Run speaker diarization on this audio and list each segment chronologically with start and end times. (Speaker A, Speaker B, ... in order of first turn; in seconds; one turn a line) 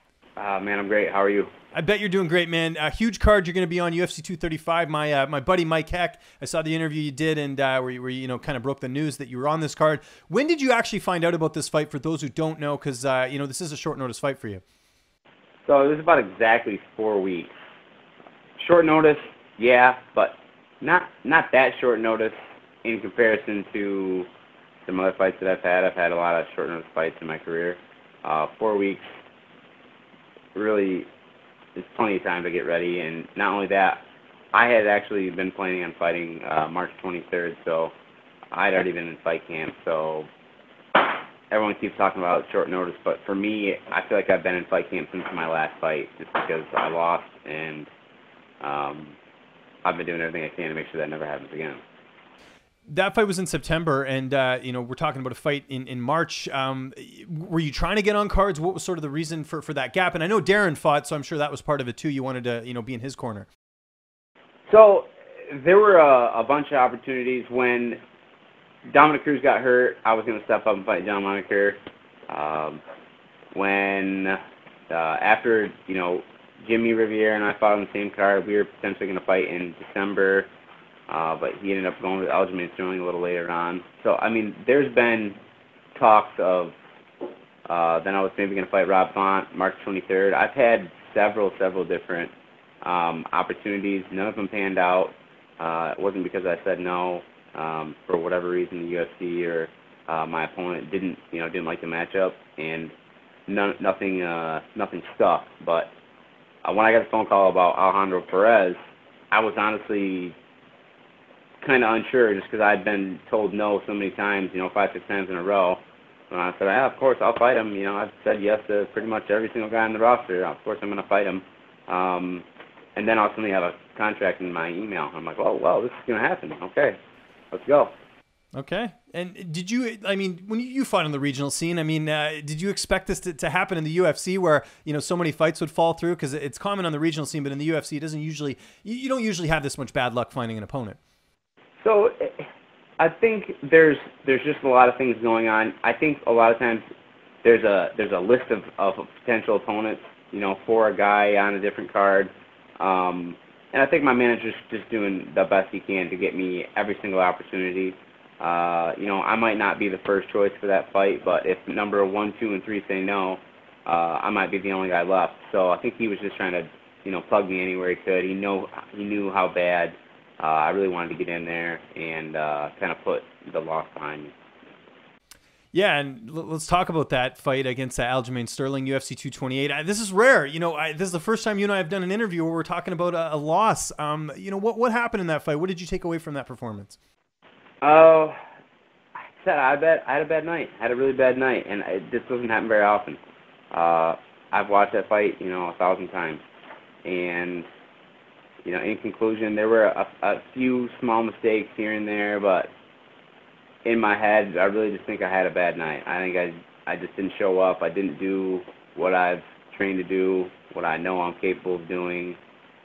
Speaker A: 0.4-1.5
Speaker B: 1.7-14.6
Speaker A: 15.7-17.5
Speaker A: 18.6-24.3
Speaker A: 24.9-29.1
Speaker A: 30.5-31.1
Speaker A: 31.8-34.0
Speaker A: 34.5-37.9
Speaker A: 38.5-40.3
Speaker A: 41.0-47.9
Speaker A: 48.6-49.2
Speaker A: 49.8-51.8
Speaker B: 52.9-63.5
Speaker A: 64.7-68.0
Speaker A: 68.9-72.8
Speaker A: 73.5-74.3
Speaker A: 74.9-80.5
Speaker A: 81.1-85.4
Speaker A: 85.9-86.8
Speaker A: 87.7-102.9
Speaker A: 103.5-105.9
Speaker A: 106.6-108.8
Speaker A: 109.3-110.3
Speaker A: 111.6-115.8
Speaker A: 116.3-122.4
Speaker A: 123.0-127.0
Speaker A: 127.5-127.9
Speaker B: 128.5-141.0
Speaker A: 141.8-142.5
Speaker A: 143.0-146.8
Speaker A: 147.4-174.3
Speaker B: 175.7-187.0
Speaker A: 187.8-188.3
Speaker A: 189.4-193.2
Speaker A: 193.7-196.4
Speaker A: 197.0-197.7
Speaker A: 198.7-202.7
Speaker A: 203.8-212.4